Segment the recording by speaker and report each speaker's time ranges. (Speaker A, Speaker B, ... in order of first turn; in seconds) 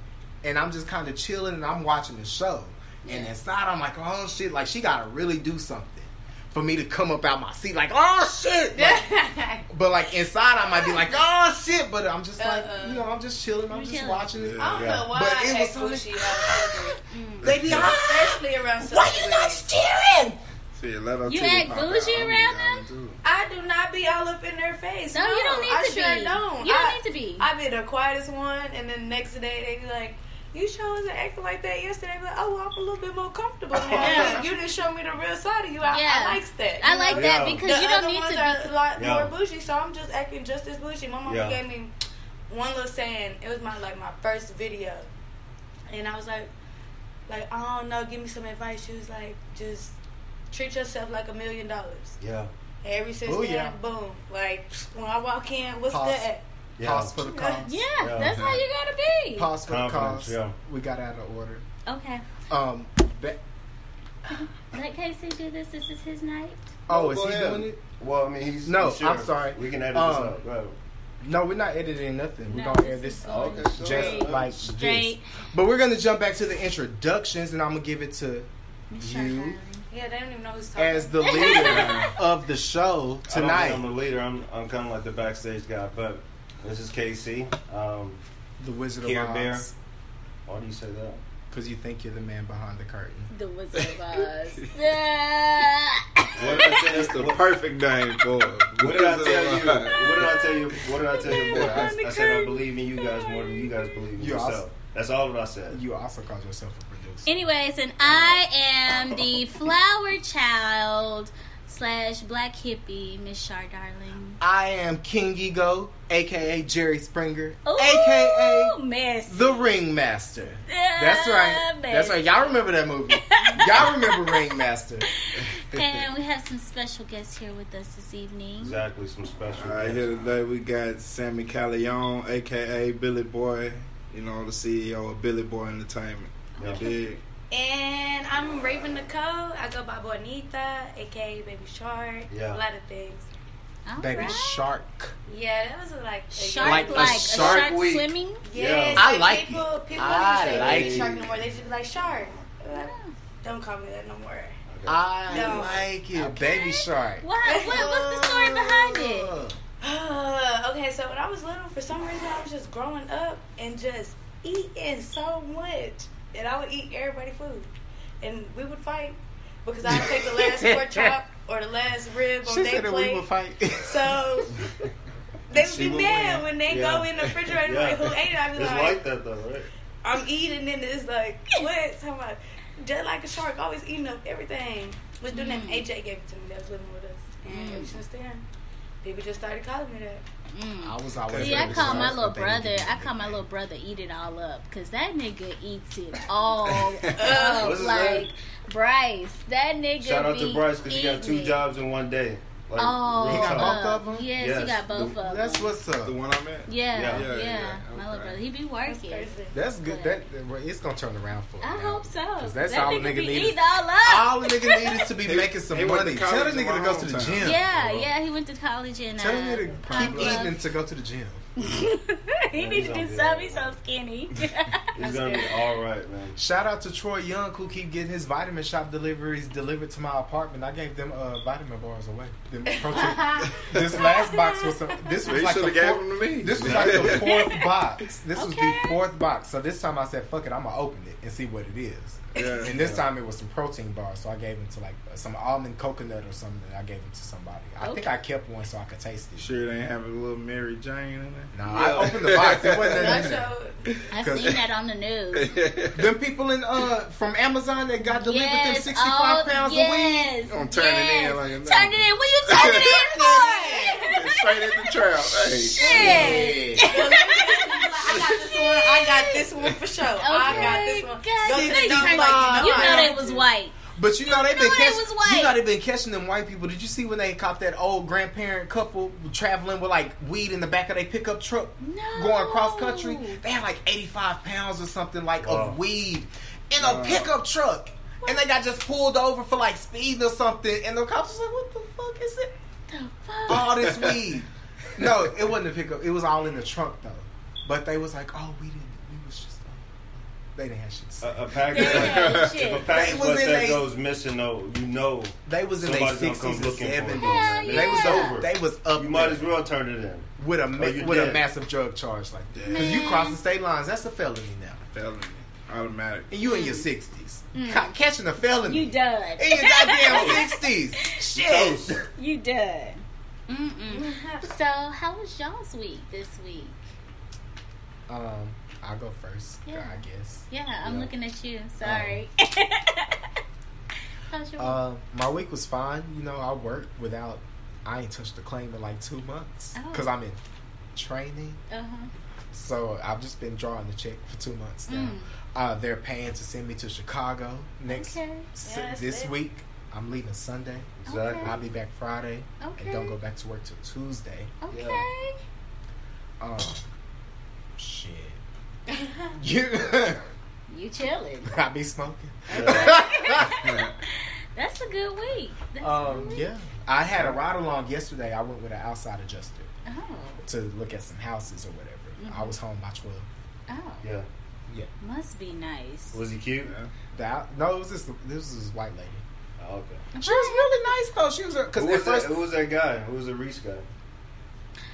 Speaker A: 0.4-9.1, 9.7-20.4, 53.2-53.8, 55.9-56.3, 56.8-57.8, 59.3-61.6, 62.5-63.4, 66.9-67.8, 68.6-70.4, 71.2-79.6, 80.8-83.8, 88.6-89.7, 91.5-93.3, 104.2-104.6, 105.7-107.5, 114.4-125.1, 144.0-145.1, 146.6-147.9, 148.9-151.2, 154.9-159.6, 169.8-171.1, 172.4-174.4, 190.8-193.4, 203.3-204.3, 204.9-206.2, 209.5-217.6, 219.2-221.4, 226.3-249.6, 251.5-253.5, 254.2-254.6, 255.9-260.3, 262.6-264.0, 265.8-266.9, 271.4-292.5, 293.5-299.9, 300.5-301.6, 302.9-303.9, 305.4-309.5, 310.4-314.8, 316.3-322.1, 328.1-331.1, 331.8-332.2, 334.6-340.4, 340.9-341.6, 342.5-354.5, 356.4-356.8, 357.8-358.4, 359.3-360.2, 361.4-363.6, 365.8-369.7, 370.4-373.3, 377.1-379.2, 380.2-382.4
Speaker B: 3.0-3.3, 13.7-14.3, 17.1-17.5, 21.2-22.8, 25.1-27.5, 34.0-34.4, 35.8-38.7, 57.6-59.5, 61.9-62.2, 64.3-66.7, 72.5-75.2, 78.9-79.8, 81.2-82.1, 93.3-96.8, 99.9-103.9, 107.2-114.4, 117.6-119.6, 120.7-122.5, 123.2-124.3, 125.3-128.8, 136.6-136.9, 143.8-144.7, 146.3-148.4, 152.7-153.2, 156.1-159.3, 185.3-185.9, 187.5-188.0, 190.5-201.6, 202.8-205.7, 206.7-209.3, 209.8-210.2, 211.6-215.0, 217.4-220.6, 221.6-224.9, 234.1-234.6, 237.0-237.5, 238.3-239.0, 247.8-248.1, 254.1-255.6, 258.0-269.5, 270.2-275.6, 281.8-283.4, 292.9-294.1, 301.7-303.0, 307.2-308.4, 312.7-313.4, 316.4-316.9, 317.5-317.9, 318.6-321.2, 322.1-326.8, 329.6-333.3, 334.3-334.8, 339.7-340.1, 341.7-342.1, 344.9-345.3, 347.9-348.5, 351.1-351.5, 352.6-353.2, 354.6-355.4, 360.7-361.6, 362.5-366.5, 369.9-370.4, 372.2-372.6, 373.7-374.0, 375.0-376.2, 380.1-380.9
Speaker C: 8.7-9.7, 12.4-13.1, 14.6-17.0, 17.7-19.6, 23.2-41.9, 42.5-45.1, 45.9-46.5, 47.3-50.0, 50.5-52.1, 52.8-56.4, 57.2-57.6, 79.9-81.8, 137.5-143.3, 145.3-147.7, 148.4-154.6, 155.2-155.9, 157.4-157.9, 159.8-167.7, 168.2-173.3, 173.8-174.7, 175.5-179.0, 180.0-188.4, 189.0-190.2, 197.1-197.8, 208.9-209.6, 225.0-225.6, 232.7-234.3, 242.4-242.6, 252.9-253.8, 265.9-273.3, 323.9-324.5, 348.6-349.3, 358.9-359.3
Speaker D: 14.4-14.9, 17.4-18.0, 20.7-23.2, 58.2-58.6, 81.7-82.1, 96.4-100.3, 100.8-101.8, 125.6-126.0, 129.6-137.2, 175.5-177.5, 191.3-192.0, 196.7-197.2, 206.0-208.4, 215.2-217.6, 219.9-220.4, 233.5-233.8, 235.2-237.6, 242.3-243.0, 249.4-253.4, 255.3-256.0, 260.4-263.4, 264.0-266.3, 286.8-287.3, 293.6-294.2, 301.8-302.7, 312.5-313.0, 314.9-316.3, 376.6-376.9
Speaker E: 14.8-15.1, 33.7-34.4, 37.1-37.7, 39.0-39.3, 41.3-41.6, 52.2-52.5, 56.8-57.1, 58.0-58.4, 59.6-60.6, 66.9-70.8, 73.2-74.5, 83.3-88.2, 89.0-89.7, 90.5-91.2, 96.3-97.4, 98.8-105.8, 108.0-108.4, 128.6-130.1, 142.3-142.6, 147.3-148.0, 148.5-149.1, 150.3-151.3, 154.7-155.0, 177.6-179.7, 197.3-198.3, 200.0-204.9, 206.9-207.3, 217.5-218.1, 222.5-223.8, 224.9-226.4, 270.4-270.8, 285.4-285.8, 301.2-311.4, 320.1-320.4, 321.3-322.0, 351.0-351.6, 354.7-355.0, 362.5-363.0, 374.0-374.3, 376.1-376.7, 379.6-380.1, 381.8-383.9